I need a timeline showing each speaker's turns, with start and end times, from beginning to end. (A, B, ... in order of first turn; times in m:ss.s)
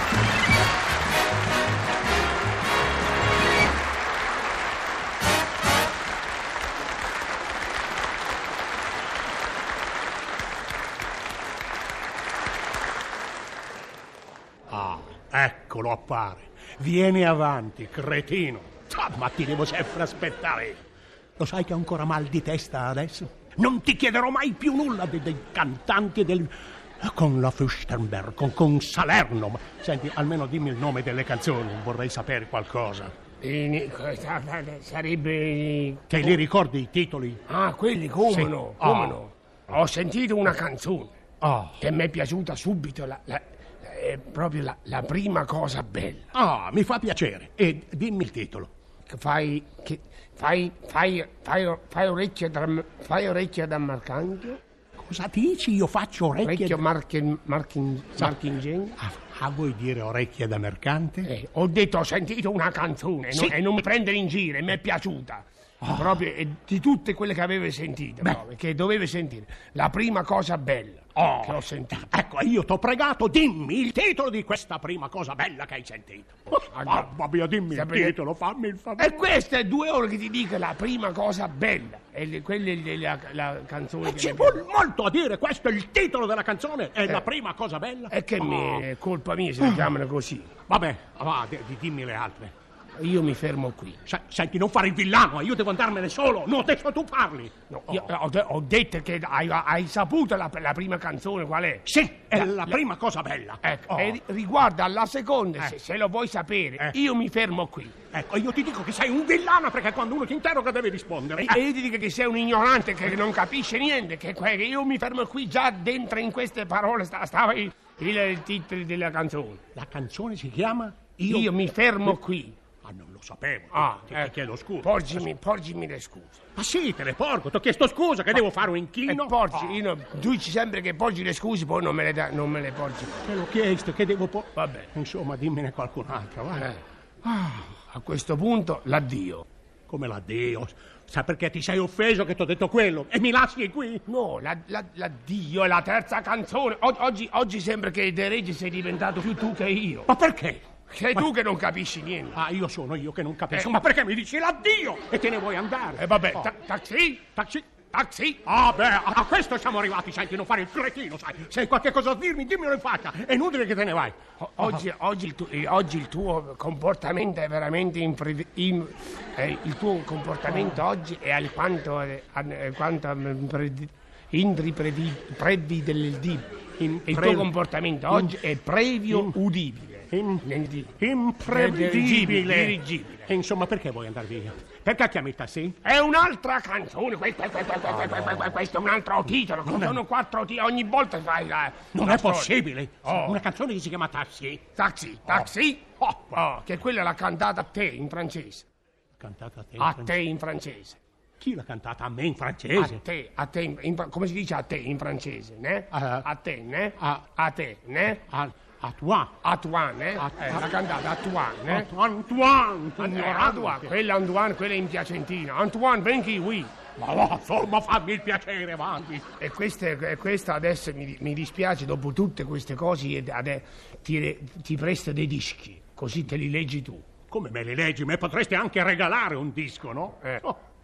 0:14.7-0:20.8 A
0:21.4-0:33.1 A
0:33.4-0:36.4 B
0:36.1-0:37.4 A
0:37.5-0:41.1 B
0:38.3-0:39.2 A
0:41.4-0:41.8 A
0:41.7-0:46.3 B
0:46.3-0:48.7 A
0:49.1-0:54.6 B
0:55.0-0:56.8 A
0:56.4-0:59.0 B
0:59.0-1:01.3 A
1:01.2-1:12.1 B
1:03.3-1:03.8 A
1:05.8-1:06.1 A
1:11.2-1:19.2 A
1:16.7-1:17.1 B
1:17.7-1:18.2 B
1:19.0-1:24.6 B
1:24.0-1:28.8 A
1:28.1-1:30.5 B
1:30.7-1:32.5 A
1:33.0-1:34.0 B
1:34.0-1:38.1 A
1:37.7-1:42.8 B
1:41.8-1:44.2 A
1:43.6-1:48.0 B
1:48.1-1:51.6 A
1:51.4-1:59.6 B
1:59.7-2:01.5 A
2:01.3-2:02.6 B
2:02.8-2:05.2 A
2:03.7-2:06.4 B
2:06.5-2:09.4 A
2:09.1-2:13.3 B
2:13.2-2:16.7 A
2:14.6-2:14.9 B
2:16.5-2:19.4 B
2:19.9-2:24.0 A
2:24.1-2:30.1 B
2:30.1-2:31.2 A
2:30.9-2:32.4 B
2:32.3-2:36.5 A
2:36.0-2:37.3 B
2:37.3-2:37.7 A
2:37.9-2:38.4 B
2:38.4-2:44.2 A
2:44.4-3:03.3 B
2:56.8-2:57.5 A
2:58.1-2:58.4 A
2:59.1-2:59.4 A
3:00.1-3:05.8 A
3:05.8-3:13.4 B
3:09.6-3:10.0 A
3:11.9-3:14.7 A
3:14.8-3:18.6 B
3:16.0-3:16.4 A
3:19.2-3:20.1 A
3:19.8-3:21.0 B
3:21.4-3:23.0 A
3:22.7-3:28.2 B
3:25.9-3:26.2 A
3:27.0-3:27.2 A
3:28.2-3:29.4 A
3:29.4-3:31.9 B
3:30.2-3:30.7 A
3:31.7-3:33.9 A
3:33.0-3:36.7 B
3:37.0-3:39.3 A
3:39.4-3:47.0 B
3:47.3-3:50.6 A